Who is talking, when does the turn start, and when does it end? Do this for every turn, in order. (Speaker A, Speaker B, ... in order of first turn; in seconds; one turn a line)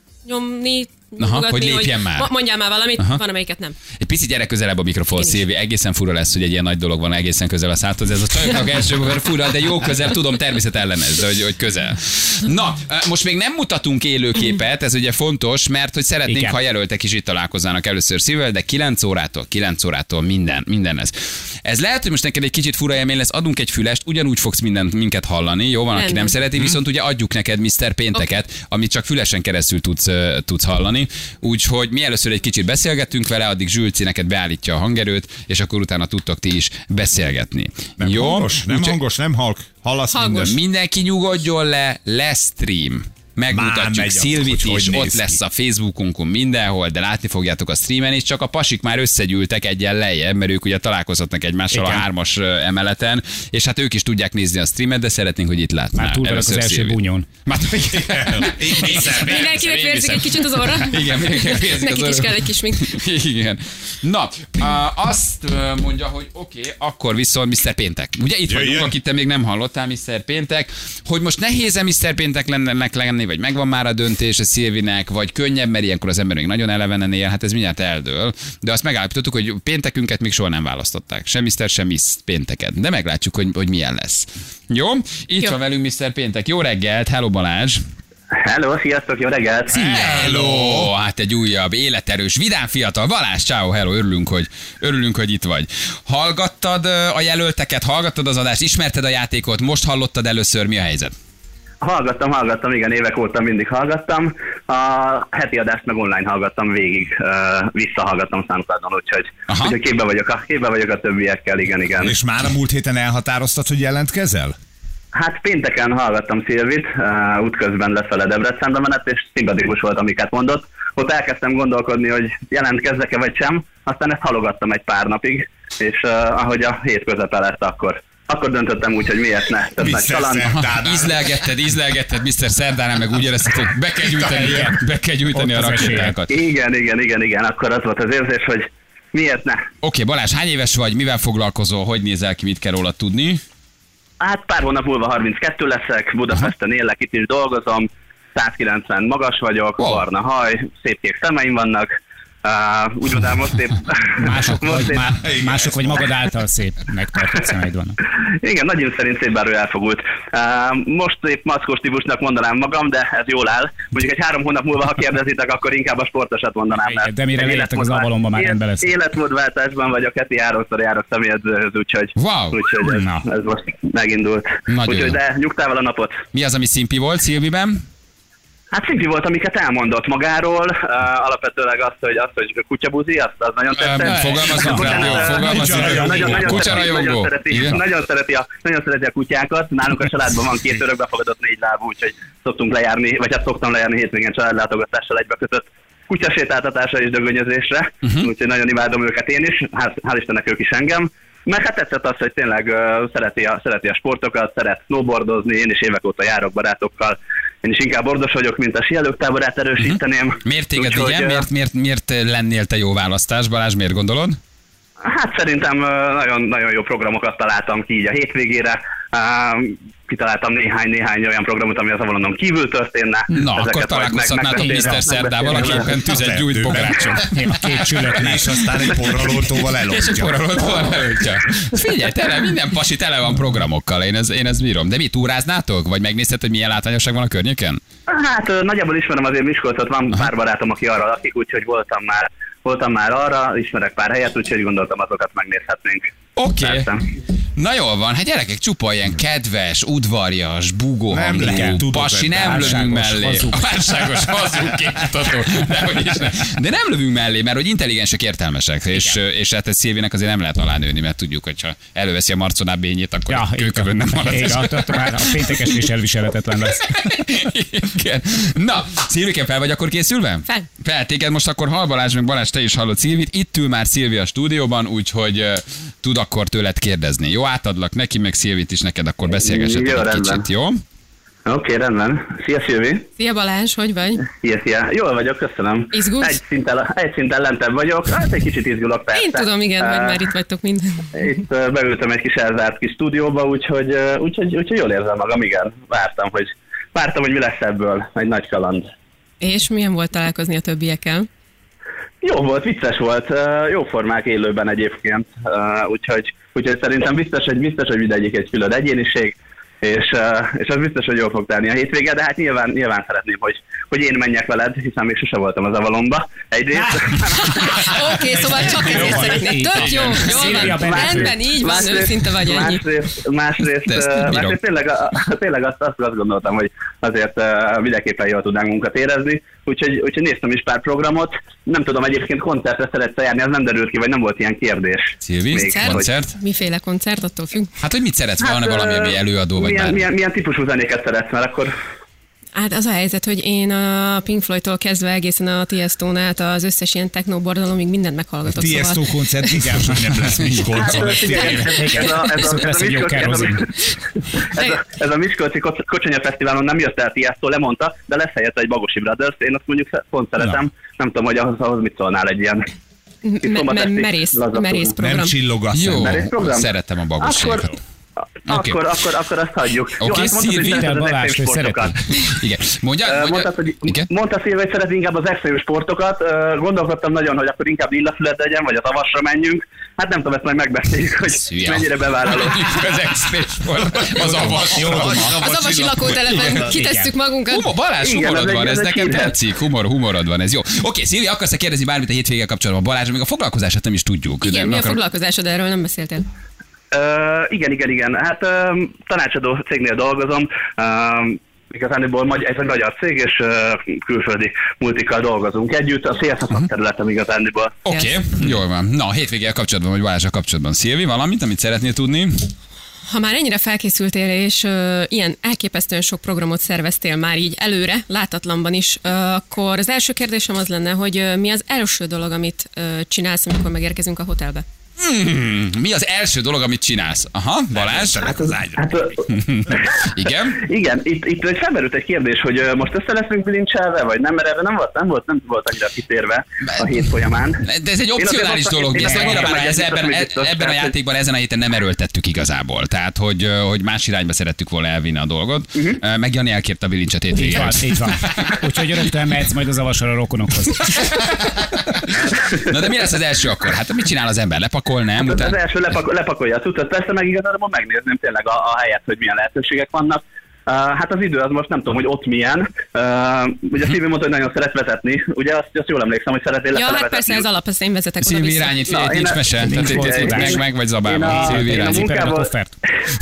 Speaker A: 0.2-3.8
Speaker B: 1.2-2.3
Speaker B: 4.0-39.0
Speaker A: 5.1-5.4
Speaker C: 16.3-16.6
Speaker A: 25.9-26.4
Speaker D: 38.0-40.6
Speaker A: 40.1-40.6
Speaker B: 40.4-87.8
Speaker D: 43.5-45.4
Speaker C: 51.7-52.0
Speaker C: 56.0-57.3
Speaker D: 58.1-59.6
Speaker A: 59.0-63.0
Speaker D: 68.5-68.9
Speaker E: 88.3-89.8
Speaker B: 89.7-101.1
Speaker D: 89.7-90.9
Speaker E: 101.8-112.1
Speaker B: 109.5-109.8
Speaker D: 112.0-114.6
Speaker E: 115.1-130.5
Speaker D: 129.8-131.2
Speaker B: 130.4-136.3
Speaker D: 134.0-134.5
Speaker C: 134.4-134.8
Speaker C: 135.3-136.2
Speaker E: 136.3-139.6
Speaker B: 139.8-143.4
Speaker E: 144.2-151.9
Speaker B: 149.8-150.1
Speaker E: 152.4-155.1
Speaker C: 154.2-158.0
Speaker D: 155.2-156.0
Speaker E: 158.2-176.2
Speaker C: 166.8-168.9
Speaker B: 172.2-172.6
Speaker C: 172.8-173.2
Speaker B: 174.7-175.2
Speaker B: 176.3-177.8
Speaker E: 178.7-211.5
Speaker B: 183.8-187.8
Speaker D: 184.7-186.8
Speaker B: 209.8-214.4
Speaker E: 215.0-225.9
Speaker B: 223.3-228.2
Speaker D: 225.5-226.9
Speaker C: 226.7-228.6
Speaker D: 228.1-230.4
Speaker B: 228.9-237.8
Speaker E: 238.1-247.0
Speaker B: 246.4-246.9
Speaker B: 247.6-265.8
Speaker D: 251.1-253.2
Speaker C: 251.5-251.8
Speaker C: 252.4-253.8
Speaker C: 263.3-266.8
Speaker B: 266.6-280.8
Speaker E: 279.3-280.4
Speaker E: 281.5-283.1
Speaker A: 283.2-284.3
Speaker E: 284.3-290.3
Speaker A: 285.9-286.4
Speaker A: 289.1-291.1
Speaker E: 291.1-298.9
Speaker A: 299.4-301.3
Speaker E: 302.2-317.7
Speaker A: 317.3-322.8
Speaker C: 318.5-321.3
Speaker D: 318.8-319.1
Speaker B: 318.9-320.9
Speaker E: 320.7-336.1
Speaker B: 323.9-324.6
Speaker B: 335.2-336.4
Speaker A: 335.6-337.7
Speaker B: 337.8-340.1
Speaker E: 338.4-341.7
Speaker A: 342.6-349.5
Speaker D: 348.5-351.6
Speaker C: 349.6-353.6
Speaker B: 350.3-351.0
Speaker E: 350.8-353.7
Speaker A: 352.1-352.7
Speaker E: 354.6-362.7
Speaker A: 363.2-365.4
Speaker E: 363.4-364.9
Speaker D: 365.0-366.3
Speaker B: 365.7-367.8
Speaker E: 365.9-366.7
Speaker E: 367.2-367.7
Speaker E: 368.5-372.0
Speaker B: 368.5-368.8
Speaker B: 370.0-370.9
Speaker C: 370.3-372.0
Speaker B: 372.1-374.1
Speaker E: 373.1-382.8
Speaker B: 381.3-385.5
Speaker D: 384.2-386.7
Speaker C: 384.3-385.2
Speaker A: 385.2-387.7
Speaker C: 386.5-387.1
Speaker B: 387.5-395.0
Speaker E: 388.0-389.3
Speaker A: 394.4-396.3
Speaker E: 396.9-407.8
Speaker B: 407.9-412.5
Speaker A: 407.9-408.2
Speaker A: 413.1-424.6
Speaker B: 425.0-428.5
Speaker D: 427.7-428.8
Speaker E: 428.8-430.0
Speaker B: 429.3-430.6
Speaker E: 430.6-437.6
Speaker B: 436.6-436.9
Speaker B: 437.6-448.6
Speaker E: 438.2-440.9
Speaker C: 439.0-439.5
Speaker C: 447.4-451.2
Speaker B: 450.9-455.6
Speaker E: 455.2-467.4
Speaker A: 466.7-468.9
Speaker B: 468.2-472.2
Speaker E: 468.9-472.5
Speaker C: 469.6-470.6
Speaker C: 471.2-472.7